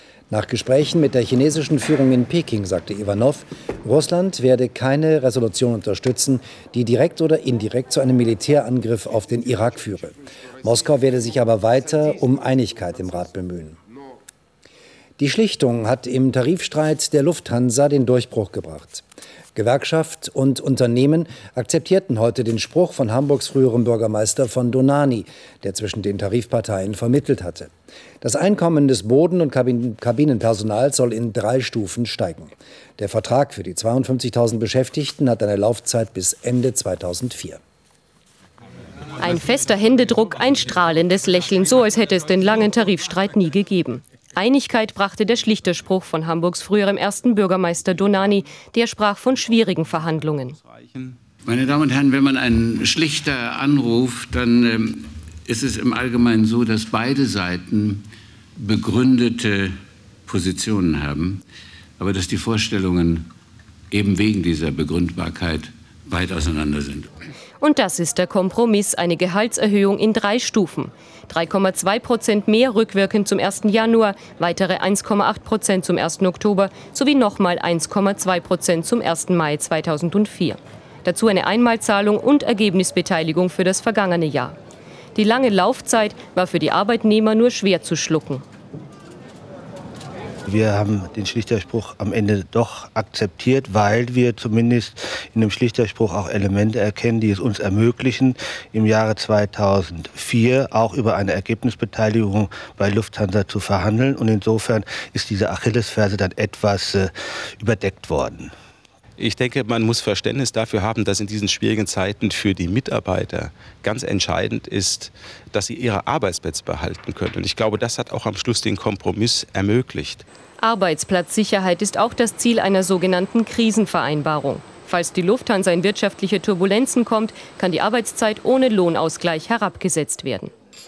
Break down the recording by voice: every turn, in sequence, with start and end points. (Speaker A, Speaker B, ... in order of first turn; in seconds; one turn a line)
Speaker A: 0.3-13.8
Speaker A: 15.2-27.7
Speaker A: 28.2-37.6
Speaker B: 39.2-50.6
Speaker C: 50.5-51.1
Speaker D: 51.5-58.0
Speaker D: 58.6-59.8
Speaker D: 60.3-61.4
Speaker D: 62.0-63.3
Speaker D: 63.9-67.1
Speaker B: 67.6-84.5
Speaker B: 85.1-88.4
Speaker E: 90.5-108.5
Speaker C: 109.2-120.2
Speaker B: 120.6-130.5